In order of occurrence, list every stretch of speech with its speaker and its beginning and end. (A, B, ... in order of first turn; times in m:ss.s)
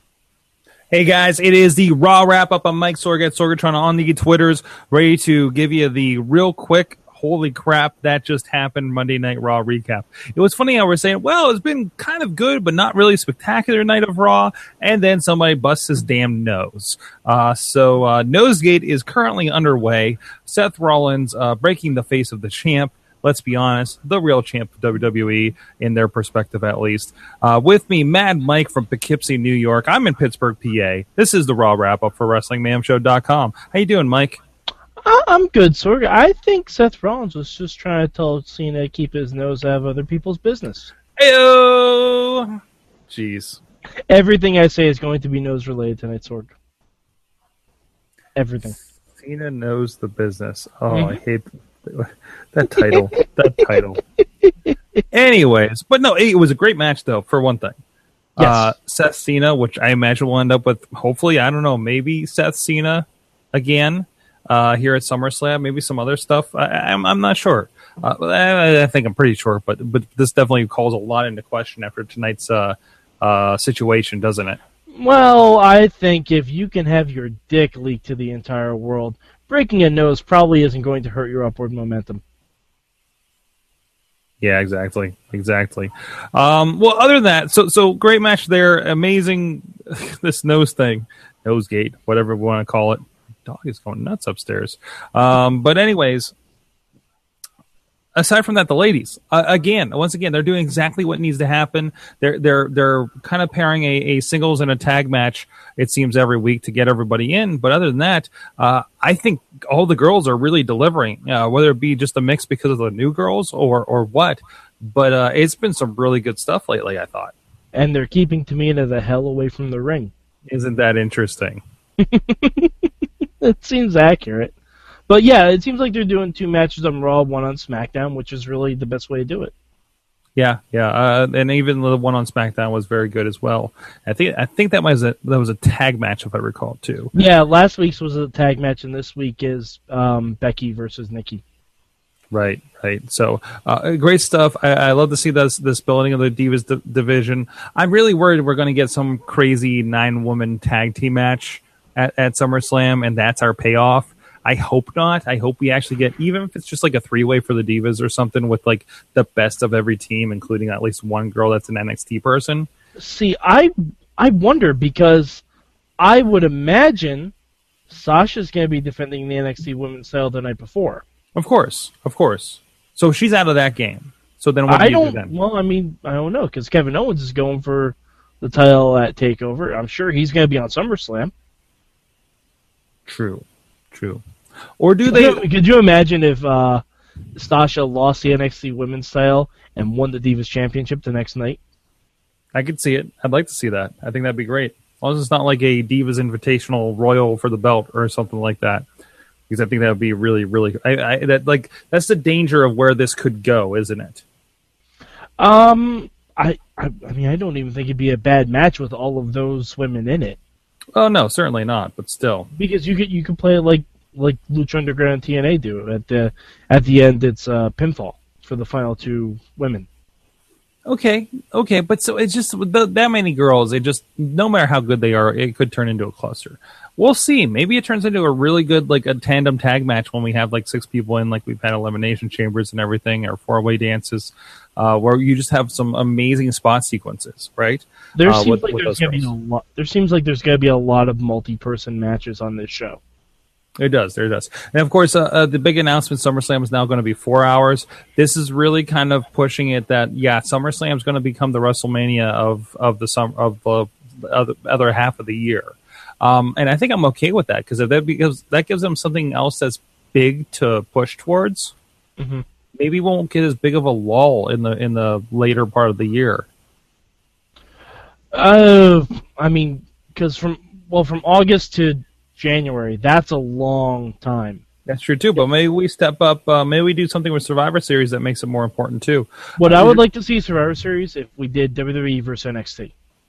0:00.9-0:34.4 A
0:35.0-0:40.9 B
0:41.2-0:42.6 A
0:43.1-0:43.6 A
0:44.1-0:46.5 B
0:48.4-0:48.8 B
0:49.2-0:54.0 A
0:50.9-0:51.2 B
0:54.4-0:54.7 B
0:55.1-0:57.8 A
0:58.4-1:14.6 A
0:58.4-0:58.7 B
1:14.9-1:22.2 B
1:24.4-1:36.3 A
1:38.2-1:57.3 A
1:57.7-2:00.1 B
2:00.5-2:01.6 A
2:02.0-2:02.9 B
2:03.4-2:04.5 B
2:05.1-2:09.5 B
2:10.4-2:17.1 A
2:17.1-2:21.4 B
2:22.3-2:42.7 A
2:43.0-2:45.4 B
2:46.0-2:47.3 B
2:47.9-2:51.0 B
2:51.4-2:55.3 A
2:54.7-3:01.3 B
3:03.1-3:04.2 A
3:04.8-3:05.4 A
3:05.0-3:06.8 B
3:07.4-3:11.6 B
3:12.5-3:18.9 A
3:19.5-3:24.2 A
3:25.4-3:30.4 B
3:31.0-3:32.5 A
3:32.6-3:39.9 B
3:40.9-3:59.3 A
3:58.2-4:03.0 B
4:03.8-4:21.7 A
4:22.2-4:22.4 B
4:22.8-4:26.5 A
4:28.3-4:34.6 B
4:34.9-4:40.0 A
4:39.6-4:42.9 B